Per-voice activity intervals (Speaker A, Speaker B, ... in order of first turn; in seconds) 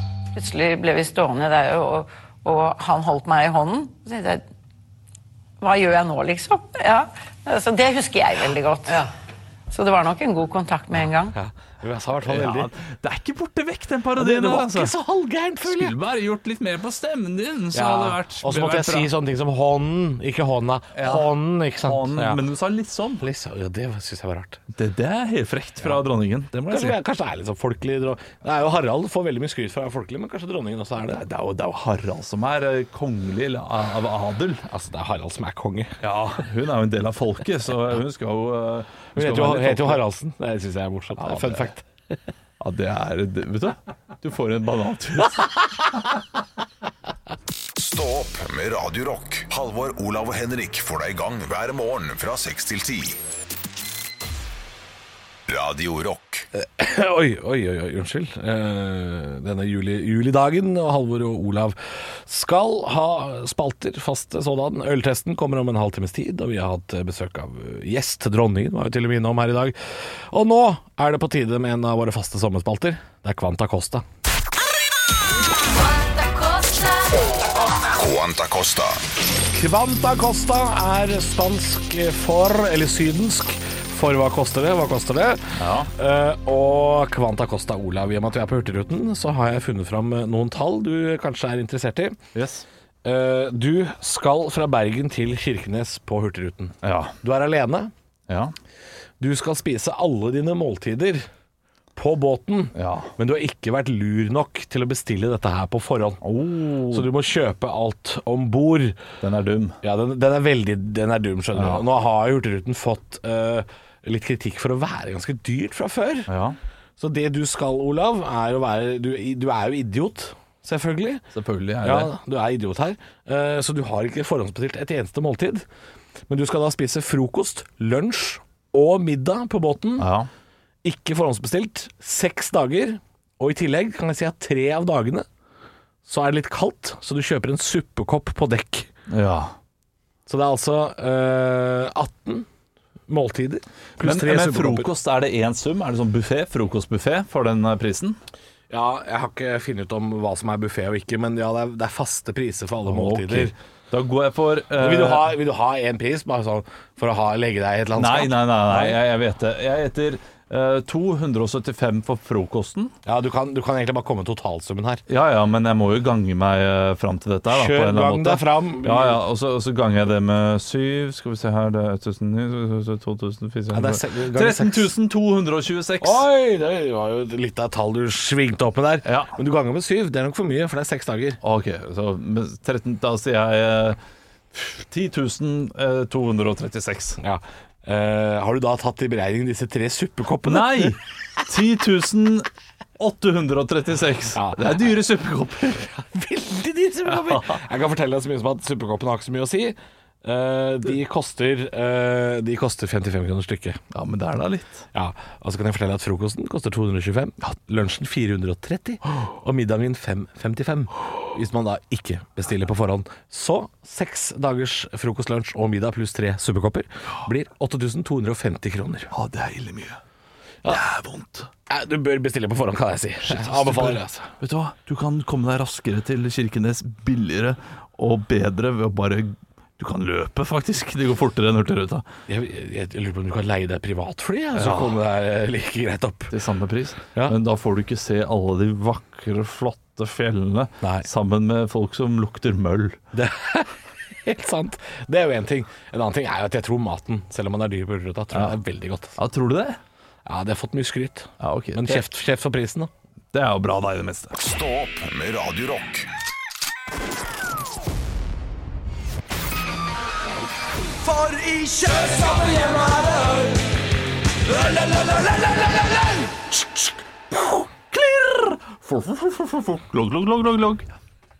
Speaker A: 0.3-4.4, 5.6-9.1, 9.7-11.3
Speaker B: 11.3-12.7, 14.2-15.9, 17.7-22.4, 23.2-24.6, 26.7-31.2, 34.6-35.9, 39.1-41.8, 56.5-69.8, 70.3-74.0, 79.5-92.2, 93.0-97.9, 99.2-101.2, 101.9-106.2, 106.9-109.0, 109.8-116.3, 117.0-121.2, 121.8-125.6, 126.3-130.1, 130.8-135.2, 136.0-138.9, 140.3-142.5, 143.1-144.9, 148.7-153.5, 154.8-159.0, 163.0-165.0, 167.5-169.2, 173.7-174.9, 176.0-181.4, 187.2-190.9, 194.3-194.7, 195.9-203.8, 204.9-219.1, 221.7-224.3, 232.3-236.3, 240.8-241.1, 243.1-249.2, 250.2-252.9, 261.0-263.6
Speaker C: 12.2-14.9, 15.6-19.1, 20.9-21.3, 21.8-23.2, 24.7-27.0, 31.0-34.6, 36.0-40.0, 41.2-41.7, 42.6-45.8, 85.5-85.9, 92.3-92.6, 96.8-97.1, 98.3-98.5, 102.7-103.1, 106.2-107.1, 109.2-109.8, 111.5-111.8, 116.3-116.6, 121.3-122.1, 130.0-130.3, 139.1-139.5, 144.0-148.2, 152.8-155.3, 157.9-162.9, 165.1-176.2, 179.0-179.3, 181.4-184.0, 184.5-187.2, 190.4-195.9, 197.1-197.6, 203.9-204.8, 219.1-220.0, 220.7-221.5, 223.2-232.0, 234.5-235.0, 236.3-243.0, 248.3-248.6, 249.2-249.8, 251.4-252.0, 253.3-254.3, 267.4-270.9
Speaker D: 47.8-53.2, 55.5-56.5, 77.8-79.0, 254.4-256.1